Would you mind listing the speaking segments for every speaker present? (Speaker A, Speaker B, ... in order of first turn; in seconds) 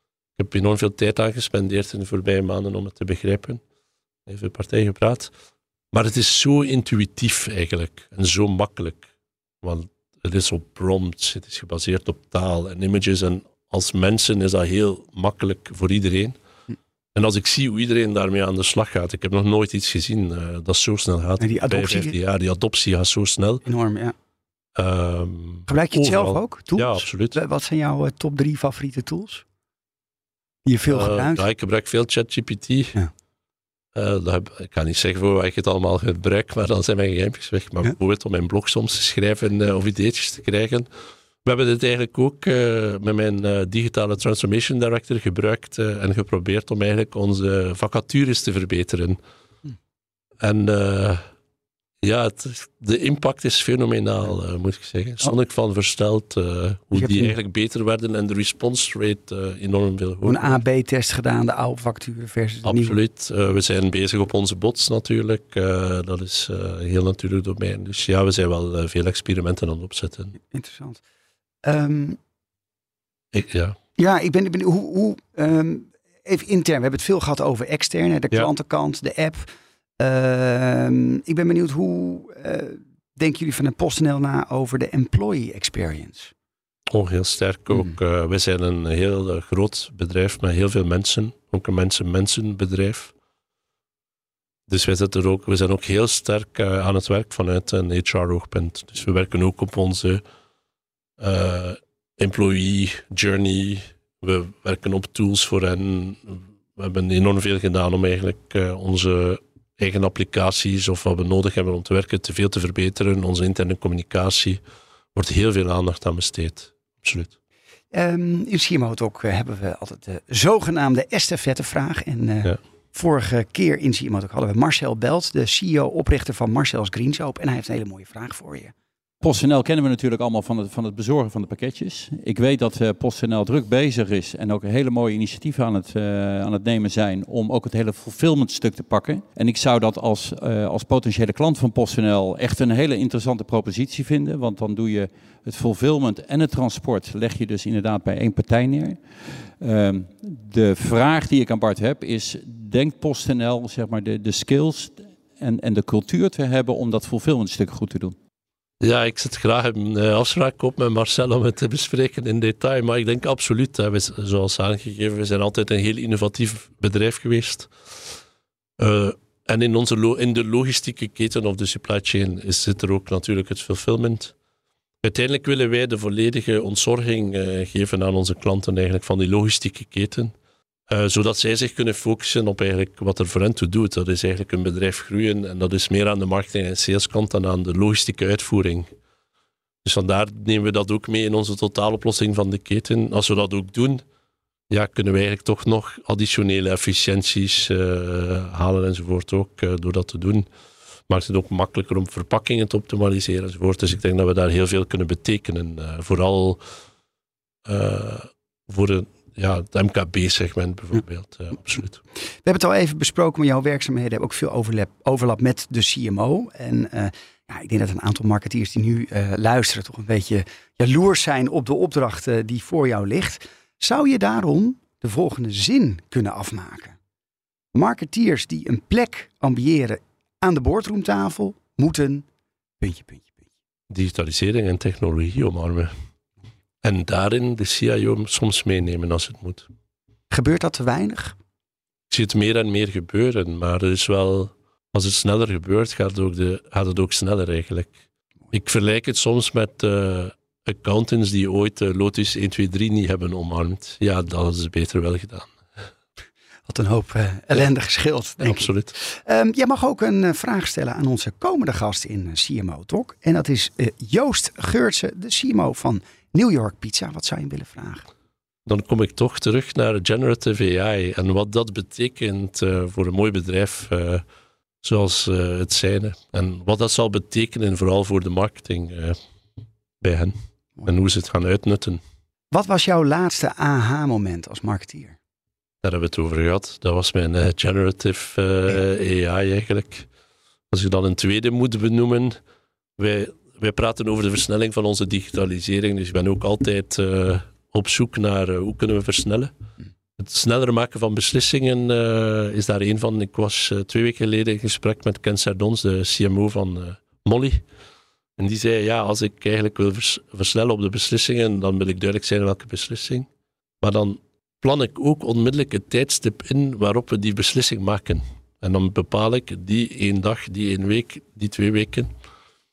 Speaker A: 0.4-3.6, 4.3-5.3, 5.9-9.1, 9.6-16.4, 17.1-23.6, 24.8-27.4, 30.9-33.0, 34.0-40.9, 41.5-49.2, 50.4-51.2, 52.0-60.6, 62.6-70.3, 73.3-73.8, 86.9-93.1, 94.7-100.2, 101.2-114.6, 115.2-117.3, 158.8-167.7, 168.8-174.3, 175.0-180.3, 180.9-188.9, 189.8-194.0, 194.7-200.5, 201.1-206.6, 207.7-212.0, 233.9-235.9, 236.8-239.7, 242.1-248.0, 248.5-255.6, 258.4-258.9, 268.7-274.2, 274.8-279.2, 280.0-282.0, 285.8-290.1, 290.7-292.4, 293.0-299.5, 300.2-307.6, 308.4-313.3, 313.8-322.1
Speaker B: 21.4-22.2, 23.6-24.1, 25.7-29.4, 30.7-31.4, 56.9-57.3, 60.2-63.0, 70.4-71.0, 71.6-72.2, 74.0-79.5, 80.0-86.3, 117.9-128.7, 212.4-227.0, 227.7-232.3, 232.8-233.5, 240.3-241.4, 256.7-268.1, 282.5-285.2
Speaker C: 129.2-149.0, 149.6-158.2